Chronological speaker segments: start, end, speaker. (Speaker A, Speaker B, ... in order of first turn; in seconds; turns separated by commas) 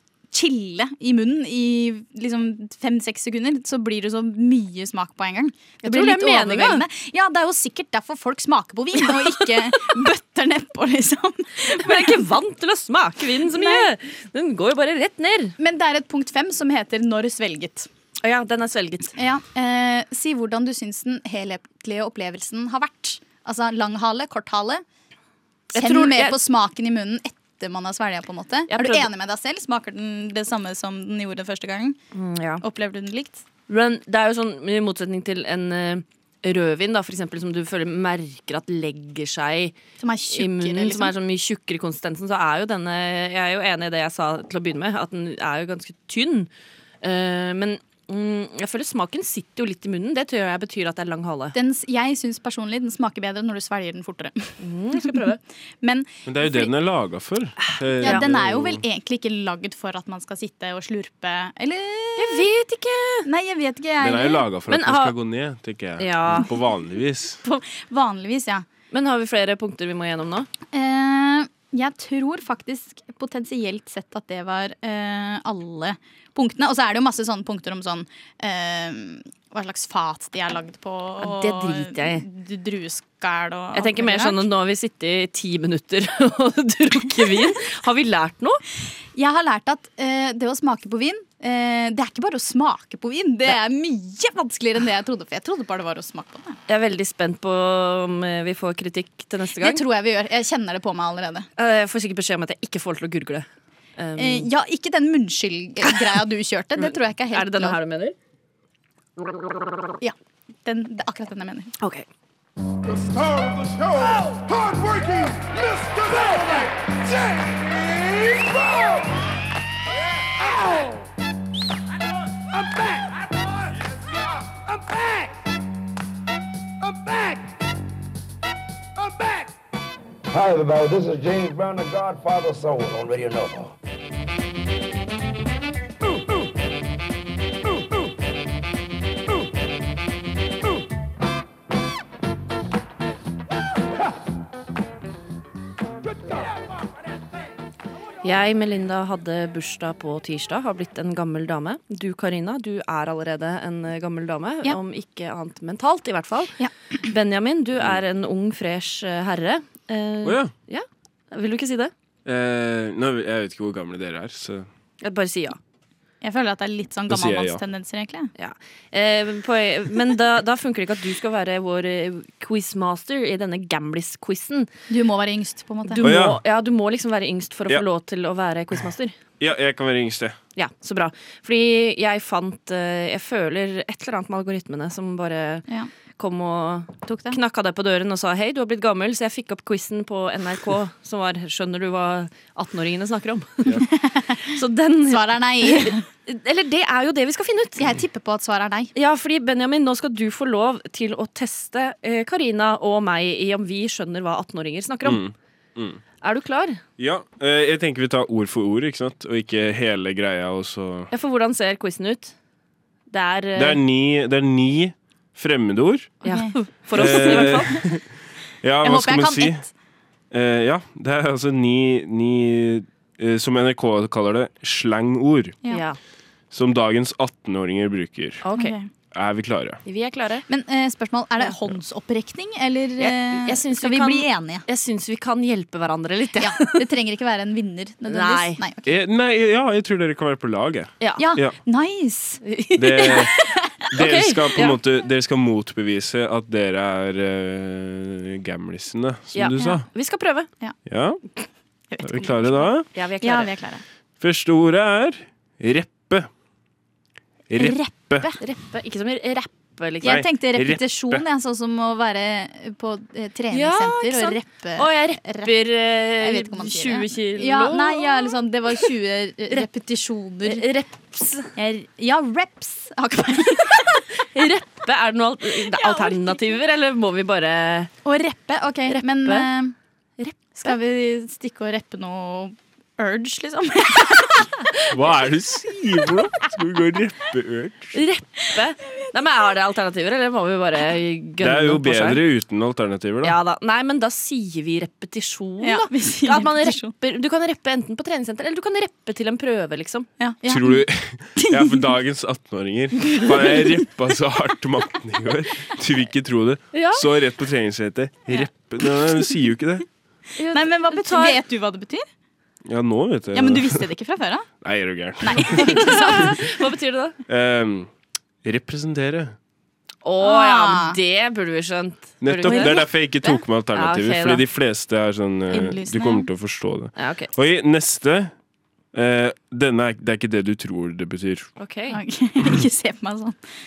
Speaker A: 0.3-12.2, Speaker B: 5.8-6.8, Speaker B: 11.7-15.5, Speaker A: 13.5-13.9, Speaker A: 15.6-17.9, Speaker B: 18.2-19.1, Speaker A: 19.1-24.8, Speaker B: 25.7-26.4, Speaker A: 25.7-32.0, Speaker B: 28.7-29.1, Speaker B: 32.1-32.6, Speaker A: 32.6-33.4, Speaker B: 33.7-39.8, Speaker A: 40.0-41.1, Speaker B: 40.3-46.5, Speaker B: 47.0-51.5, Speaker A: 51.5-56.7, Speaker B: 54.6-55.4, Speaker C: 56.2-58.8, Speaker B: 57.6-58.2, Speaker A: 58.0-62.4, Speaker B: 62.1-63.3, Speaker A: 63.2-64.4, Speaker C: 64.0-67.4, Speaker B: 64.7-65.1, Speaker B: 66.0-66.5, Speaker A: 67.4-68.7, Speaker B: 68.9-70.5, Speaker A: 70.7-84.4, Speaker B: 81.2-82.2, Speaker B: 83.7-88.6, Speaker A: 89.1-96.6, Speaker B: 96.7-99.8, Speaker A: 99.6-101.5, Speaker B: 101.6-104.5, Speaker A: 104.2-107.8, Speaker B: 105.8-106.2, Speaker B: 106.8-108.1, Speaker A: 110.0-111.7, Speaker B: 111.8-112.1, Speaker D: 130.3-133.7, Speaker B: 148.2-161.9, Speaker C: 160.2-160.5, Speaker C: 162.2-164.7, Speaker B: 165.0-165.6, Speaker A: 166.2-168.3, Speaker C: 167.1-167.6, Speaker B: 168.4-174.7, Speaker A: 174.9-176.0, Speaker B: 175.8-179.2, Speaker C: 176.0-176.4, Speaker C: 179.4-180.4, Speaker B: 180.6-185.6, Speaker B: 186.2-197.8, Speaker A: 187.1-187.4, Speaker A: 193.9-194.5, Speaker A: 195.1-196.0, Speaker A: 197.8-198.9, Speaker B: 198.9-205.2, Speaker C: 205.0-206.0, Speaker B: 206.2-206.8, Speaker C: 207.0-211.1, Speaker B: 211.1-212.3, Speaker B: 213.1-213.8, Speaker C: 213.6-216.1, Speaker A: 216.2-217.8, Speaker B: 216.2-217.8, Speaker C: 216.9-218.0, Speaker C: 218.6-219.6, Speaker A: 218.8-219.7, Speaker C: 220.3-225.6, Speaker B: 225.7-226.0, Speaker C: 226.5-228.4, Speaker B: 228.4-228.7, Speaker A: 228.5-228.9, Speaker C: 229.1-229.8, Speaker B: 229.8-230.4, Speaker A: 230.5-234.6, Speaker B: 233.0-236.8, Speaker A: 236.4-238.9, Speaker B: 238.1-238.6, Speaker C: 238.8-241.5, Speaker B: 241.0-241.2, Speaker A: 241.2-242.4, Speaker B: 242.4-244.8, Speaker C: 242.8-243.3, Speaker A: 243.0-243.7, Speaker C: 243.9-249.8, Speaker B: 249.3-250.5, Speaker A: 249.6-249.8, Speaker C: 250.8-251.2, Speaker A: 251.9-252.7, Speaker C: 252.0-252.9, Speaker B: 252.9-253.5, Speaker A: 253.2-253.8, Speaker C: 254.2-256.3, Speaker C: 257.5-258.3, Speaker A: 257.6-258.4, Speaker B: 258.4-260.2, Speaker C: 260.0-261.2, Speaker A: 260.0-265.6, Speaker B: 263.5-268.3, Speaker A: 266.2-270.7, Speaker B: 270.4-271.5, Speaker A: 271.5-274.0, Speaker B: 274.1-277.9, Speaker A: 275.7-276.6, Speaker A: 278.0-279.7, Speaker B: 278.9-279.5, Speaker B: 280.2-280.7, Speaker A: 280.6-284.5, Speaker C: 284.9-287.9, Speaker B: 287.9-292.2, Speaker C: 291.4-293.4, Speaker B: 293.2-300.1, Speaker A: 295.6-296.9, Speaker A: 300.2-300.8, Speaker C: 300.5-309.8, Speaker A: 301.4-301.9, Speaker B: 306.7-307.0, Speaker B: 310.4-311.4, Speaker A: 310.5-312.0, Speaker C: 312.6-313.9, Speaker A: 313.3-314.5, Speaker C: 314.6-316.3, Speaker A: 315.2-316.4, Speaker B: 315.5-317.2, Speaker C: 317.3-317.9, Speaker C: 318.4-319.4, Speaker B: 320.0-322.8, Speaker A: 320.2-321.0, Speaker C: 322.2-328.3, Speaker A: 322.4-323.4, Speaker B: 323.7-324.4, Speaker A: 325.5-326.3, Speaker B: 326.9-327.3, Speaker C: 328.9-331.5, Speaker B: 331.6-332.0, Speaker A: 331.9-333.4